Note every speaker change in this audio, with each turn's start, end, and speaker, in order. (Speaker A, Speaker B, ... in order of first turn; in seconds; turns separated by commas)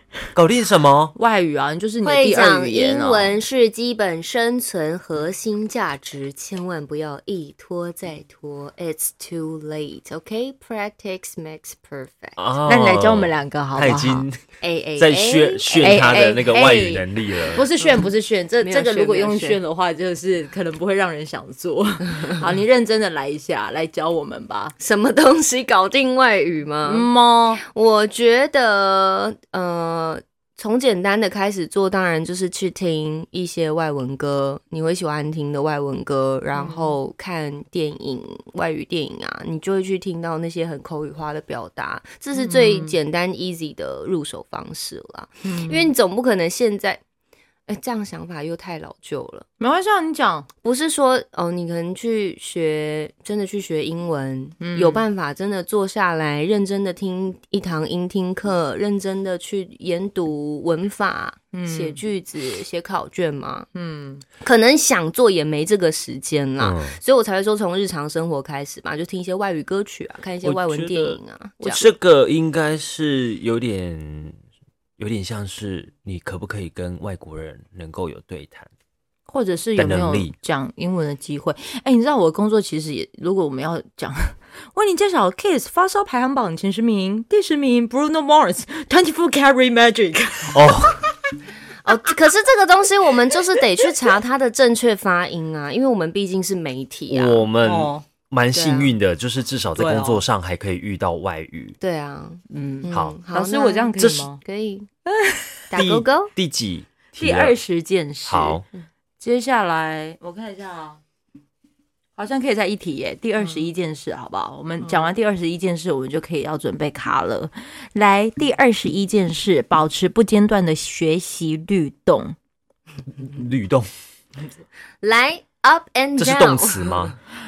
Speaker A: 0.3-1.1, Speaker B: 1.2-3.4, Speaker C: 2.0-12.4, Speaker A: 12.4-14.4, Speaker B: 12.7-14.3, Speaker C: 14.6-16.3, Speaker A: 15.0-17.7, Speaker B: 15.8-24.8, Speaker C: 17.8-19.6, Speaker C: 22.1-22.4, Speaker C: 24.8-27.1, Speaker B: 26.8-27.6, Speaker C: 27.6-47.0, Speaker B: 36.5-37.0, Speaker B: 42.4-43.0, Speaker B: 45.4-45.9, Speaker C: 47.7-49.5, Speaker B: 49.6-50.5, Speaker C: 50.6-63.7, Speaker B: 54.6-55.1, Speaker B: 61.5-62.0, Speaker B: 63.8-64.2, Speaker C: 64.4-71.8, Speaker A: 66.6-67.0, Speaker A: 70.4-74.4, Speaker A: 75.0-78.7, Speaker B: 79.3-90.8, Speaker A: 79.8-80.3, Speaker A: 90.5-91.0, Speaker C: 91.8-97.5, Speaker A: 97.1-101.8, Speaker B: 97.6-98.0, Speaker C: 98.5-98.9, Speaker B: 99.8-100.2, Speaker C: 101.8-104.9, Speaker B: 102.5-104.4, Speaker A: 102.9-103.2, Speaker A: 104.0-104.3, Speaker B: 105.1-105.5, Speaker C: 105.7-106.3, Speaker A: 105.7-107.6, Speaker B: 107.2-108.6, Speaker A: 108.3-108.7, Speaker B: 109.2-111.0, Speaker B: 112.2-122.4, Speaker A: 123.2-123.9, Speaker C: 125.0-127.1, Speaker A: 126.2-127.2